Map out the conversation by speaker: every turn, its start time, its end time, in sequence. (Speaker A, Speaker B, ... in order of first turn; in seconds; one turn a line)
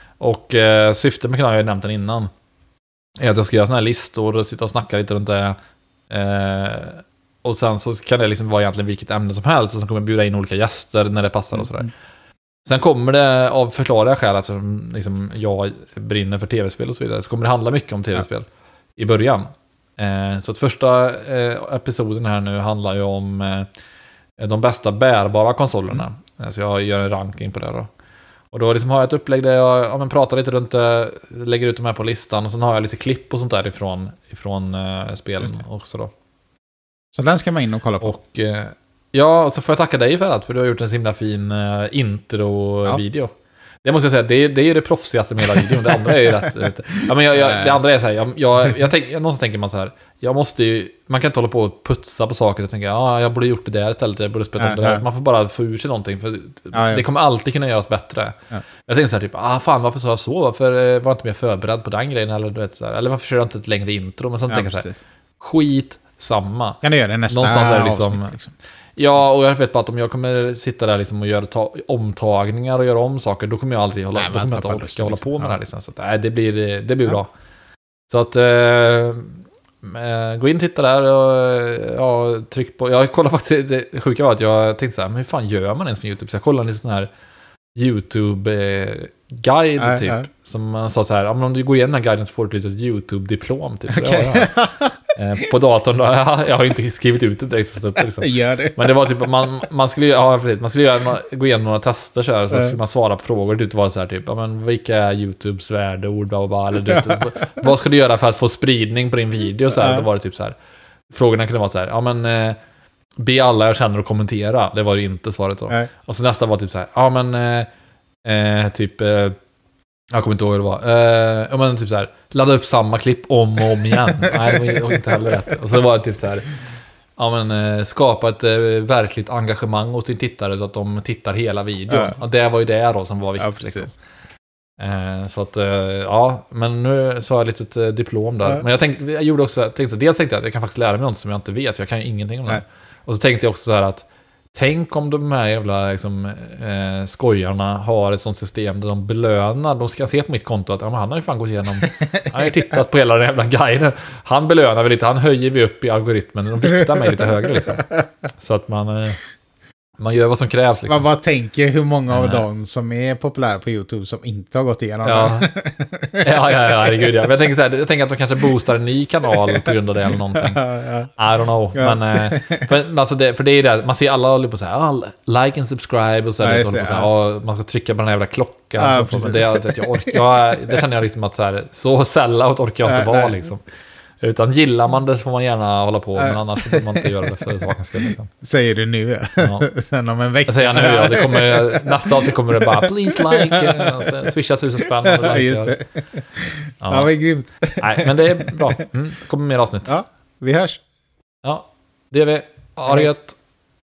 Speaker A: 0.2-2.3
Speaker A: 3.2-5.6
Speaker A: 6.1-11.9
Speaker A: 12.7-23.7
Speaker A: 24.4-27.9
Speaker A: 28.5-36.1
Speaker B: 37.1-38.2
Speaker A: 38.0-43.3
Speaker A: 43.8-64.9
Speaker B: 45.5-46.7
Speaker B: 47.2-47.8
Speaker B: 54.6-55.0
Speaker B: 56.7-57.0
Speaker B: 64.5-65.0
Speaker A: 65.4-68.3
Speaker B: 66.8-68.5
Speaker A: 69.0-77.3
Speaker B: 74.2-75.6
Speaker A: 78.1-87.1
Speaker A: 87.8-94.5
Speaker B: 89.8-90.2
Speaker B: 93.9-95.0
Speaker A: 95.2-110.6
Speaker B: 98.2-98.9
Speaker B: 109.7-110.0
Speaker A: 111.1-112.6
Speaker A: 113.2-117.7
Speaker A: 118.2-119.4
Speaker A: 120.1-126.5
Speaker B: 124.3-125.0
Speaker A: 127.2-134.0
Speaker B: 131.9-132.2
Speaker B: 133.4-133.9
Speaker A: 134.8-159.2
Speaker B: 152.0-152.5
Speaker B: 157.2-157.7
Speaker A: 160.0-161.1
Speaker B: 160.9-167.2
Speaker A: 162.1-162.4
Speaker A: 165.0-165.5
Speaker A: 166.2-170.6
Speaker B: 170.3-171.1
Speaker A: 171.2-183.6
Speaker B: 171.8-172.7
Speaker B: 176.4-177.1
Speaker B: 178.8-180.8
Speaker B: 182.8-183.4
Speaker A: 184.2-188.3
Speaker B: 186.2-187.3
Speaker B: 188.3-194.1
Speaker A: 189.4-189.7
Speaker A: 190.5-195.8
Speaker B: 195.0-198.6
Speaker A: 196.8-197.1
Speaker A: 197.8-199.9
Speaker B: 199.9-200.8
Speaker A: 201.4-203.4